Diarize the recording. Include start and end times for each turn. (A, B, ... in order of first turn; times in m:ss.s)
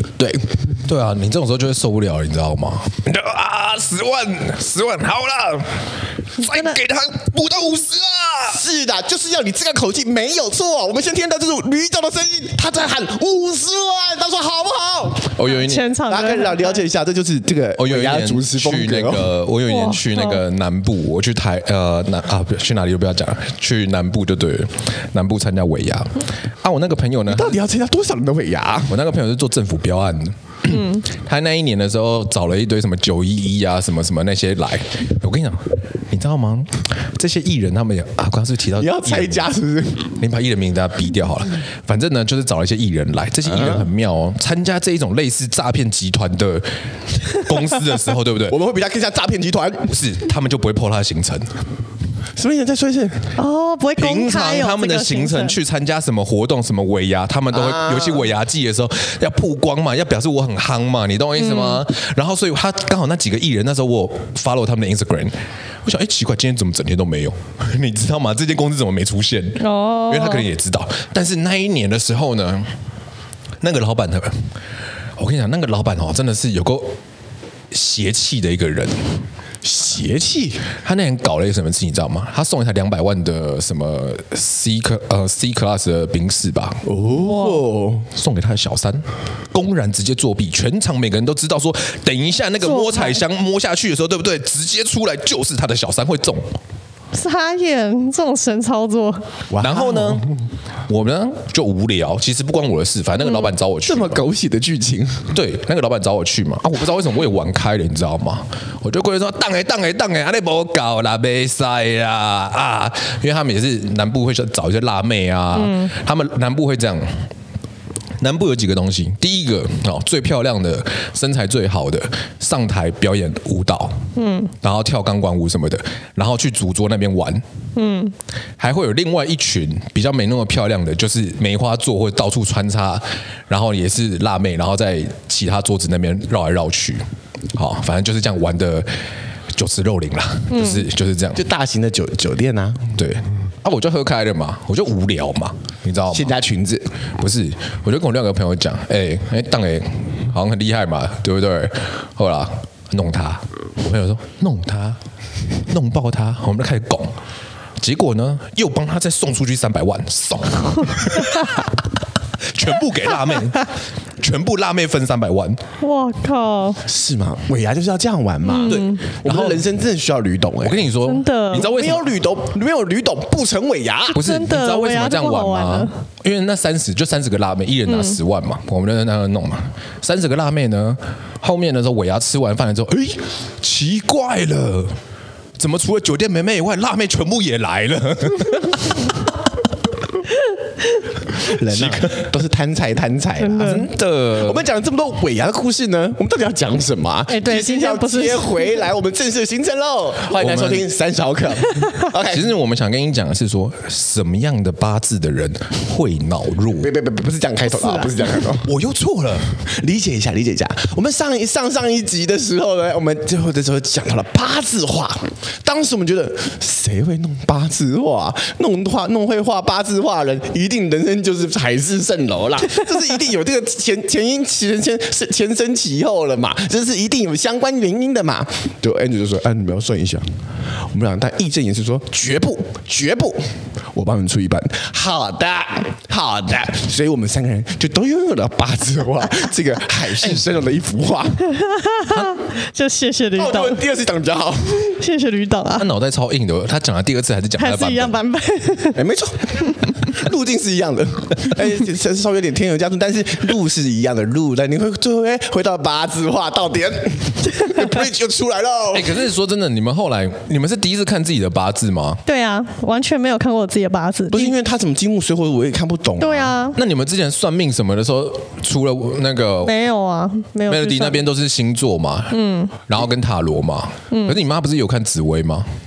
0:00.2-0:00.6 A
0:00.8-0:08.6 B
0:06.5-0:06.8 C
0:08.5-0:15.3 A
0:15.3-0:15.9 B
0:15.4-0:16.8 C
0:16.1-0:19.3 A
0:17.8-0:27.6 B
0:19.7-0:20.4 C
0:27.3-0:29.0 A
0:28.9-0:39.5 B
0:30.7-0:31.0 C
0:38.8-0:40.1 A
0:40.2-0:48.6 B
0:43.5-0:43.9 A
0:48.5-0:49.9 A
0:49.9-0:51.5 B
0:52.4-0:53.3 A
0:53.4-0:55.6 C
0:54.0-1:12.7 B
0:57.5-0:58.3 A
1:01.4-1:01.8 C
1:09.6-1:10.4 C
1:13.6-1:14.5 B
1:15.2-1:17.0 B
1:17.7-1:19.0 B
1:19.6-1:20.7 A
1:20.8-1:26.8 B
1:26.8-1:28.1 A
1:27.2-1:27.6 C
1:28.1-1:36.5 B
1:32.6-1:33.2 C
1:37.1-1:39.2 C
1:39.5-1:40.4 A
1:39.6-1:40.3 B
1:40.9-1:44.2 B
1:43.8-1:45.3 A
1:45.3-1:57.3 B
1:55.5-1:55.9 C
1:58.2-2:04.0 B
2:04.2-2:04.5 C
2:04.6-2:07.4 B
2:07.8-2:08.1 C
2:08.6-2:18.9 B
2:19.5-2:21.4 B
2:20.5-2:20.8 C
2:21.4-2:22.9 A
2:23.0-2:26.3 B
2:26.1-2:26.9 A
2:27.2-2:35.0 B
2:35.6-2:37.2 B
2:37.8-2:41.8 B
2:42.4-2:45.6 B
2:45.8-2:46.8 C
2:46.8-2:50.9 A
2:48.4-2:49.0 C
2:48.6-2:49.6 B
2:50.6-2:52.1 B
2:51.0-2:51.7 C
2:51.5-2:54.2 A
2:54.1-2:55.9 C
2:54.1-3:04.9 B
2:57.9-2:58.2 C
3:05.6-3:09.2 B
3:11.4-3:22.5 A
3:11.6-3:12.2 B
3:13.4-3:13.9 C
3:13.6-3:14.6 B
3:17.3-3:18.9 C
3:20.2-3:20.8 B
3:22.2-3:26.9 B
3:26.8-3:28.7 A
3:27.7-3:28.3 C
3:28.6-3:29.5 B
3:29.6-3:50.2 A
3:50.9-3:53.4 A
3:53.9-4:01.4 A
4:01.5-4:03.8 C
4:03.4-4:05.0 A
4:04.8-4:05.9 C
4:05.8-4:08.1 B
4:07.6-4:09.0 C
4:08.9-4:19.2 A
4:18.9-4:22.2 B
4:22.2-4:24.5 C
4:24.3-4:26.5 A
4:26.2-4:26.8 C
4:26.7-4:29.7 B
4:29.6-4:31.2 C
4:30.7-4:35.7 B
4:32.3-4:32.7 C
4:34.1-4:34.4 C